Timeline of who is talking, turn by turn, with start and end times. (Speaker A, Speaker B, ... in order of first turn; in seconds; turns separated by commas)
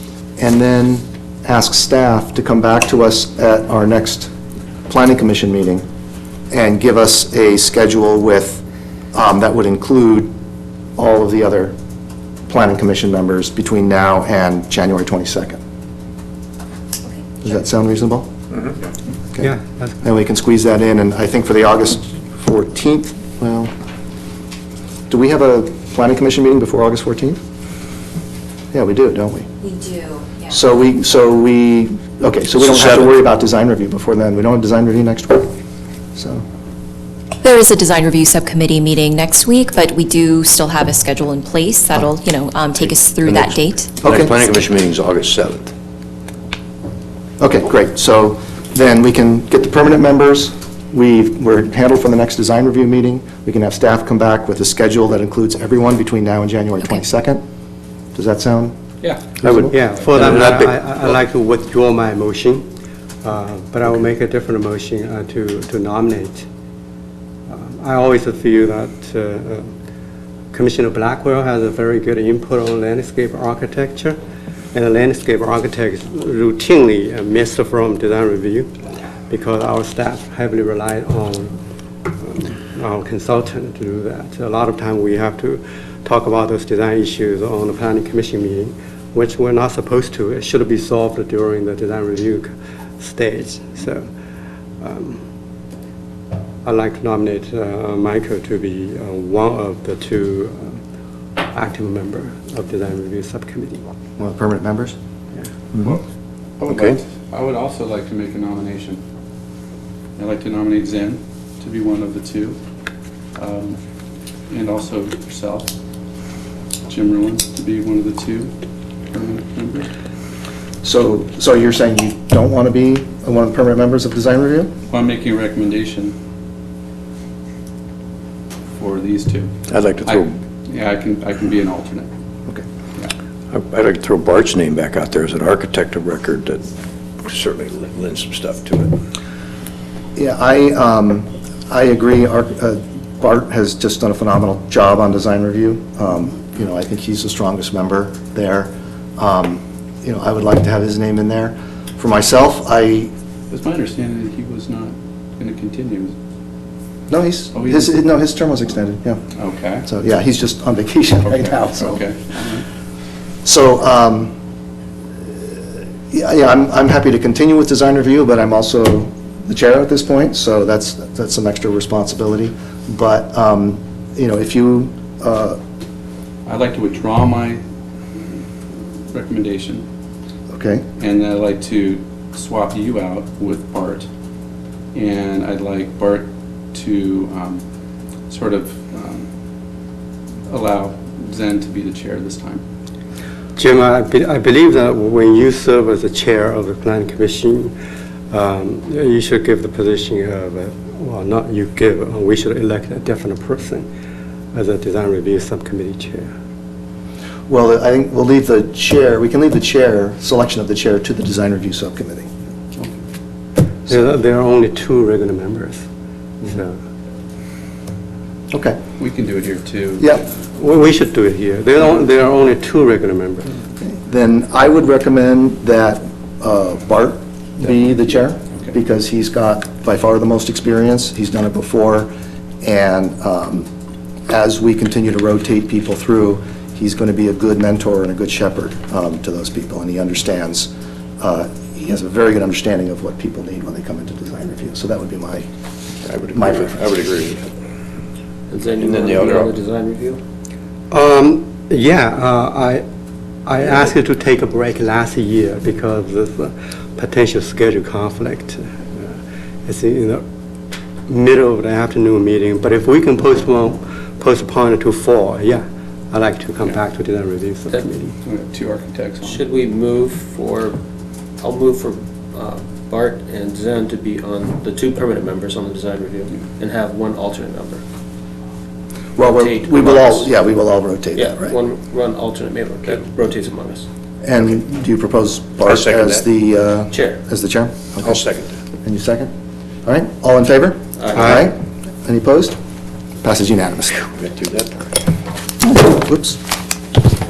Speaker A: 0.4-4.3, Speaker A: 4.9-5.8, Speaker A: 6.5-8.6, Speaker A: 9.1-10.3, Speaker A: 11.0-11.8, Speaker A: 12.5-15.6, Speaker A: 17.4-18.3, Speaker A: 19.3-23.7, Speaker B: 19.4-20.0, Speaker A: 25.1-27.4, Speaker A: 28.7-29.5, Speaker C: 29.7-30.4, Speaker A: 30.5-35.5, Speaker D: 32.6-33.0, Speaker A: 36.1-36.4, Speaker C: 37.4-43.8, Speaker A: 44.0-44.4, Speaker D: 44.0-45.7, Speaker A: 47.4-57.4, Speaker A: 58.1-58.8, Speaker E: 59.0-59.3, Speaker A: 59.4-59.7, Speaker D: 59.4-61.1, Speaker B: 59.5-62.6, Speaker B: 63.2-66.5, Speaker B: 67.5-69.7, Speaker B: 70.5-74.2, Speaker B: 74.7-78.7, Speaker B: 79.3-81.5, Speaker B: 82.1-94.1, Speaker B: 94.8-95.2, Speaker B: 96.6-100.8, Speaker B: 101.4-103.8, Speaker A: 104.2-105.0, Speaker E: 106.6-109.0, Speaker D: 106.7-107.0, Speaker E: 110.2-112.6, Speaker E: 113.3-113.8, Speaker E: 114.5-115.7, Speaker E: 116.9-118.5, Speaker E: 119.1-119.9, Speaker A: 120.8-124.7, Speaker E: 124.9-126.1, Speaker E: 128.8-129.5, Speaker D: 129.7-130.3, Speaker E: 130.0-132.1, Speaker D: 133.5-136.6, Speaker D: 137.2-139.0, Speaker A: 140.2-153.1, Speaker E: 153.5-156.1, Speaker A: 157.1-159.2, Speaker E: 157.5-157.9, Speaker E: 159.3-159.9, Speaker A: 159.8-162.0, Speaker E: 161.4-162.6, Speaker A: 163.4-164.3, Speaker A: 166.1-175.6, Speaker E: 176.4-177.6, Speaker E: 179.1-179.8, Speaker A: 180.5-180.8, Speaker E: 181.0-184.1, Speaker E: 184.9-187.6, Speaker E: 188.3-189.2, Speaker E: 190.5-192.6, Speaker B: 193.6-197.7, Speaker B: 198.3-203.8, Speaker B: 204.5-206.3, Speaker A: 207.5-212.3, Speaker B: 213.8-215.8, Speaker B: 216.4-216.8, Speaker A: 218.5-218.8, Speaker E: 219.0-220.2, Speaker B: 220.6-223.6, Speaker A: 223.8-233.7, Speaker A: 234.3-245.4, Speaker D: 246.0-247.4, Speaker A: 246.3-246.8, Speaker F: 248.5-250.2, Speaker D: 248.8-249.5, Speaker B: 250.9-252.8, Speaker B: 253.4-259.1, Speaker B: 259.6-260.2, Speaker B: 261.1-268.1, Speaker E: 268.2-269.4, Speaker F: 269.2-270.8, Speaker F: 271.4-277.8, Speaker A: 279.2-281.6, Speaker F: 279.3-280.3, Speaker F: 281.1-283.9, Speaker A: 284.2-288.2, Speaker D: 285.6-286.3, Speaker F: 286.9-287.2, Speaker D: 288.0-288.5, Speaker A: 288.8-289.3, Speaker A: 289.8-292.6, Speaker F: 291.0-291.4, Speaker B: 291.1-291.5, Speaker A: 293.2-294.1, Speaker D: 294.2-294.8, Speaker A: 295.6-296.4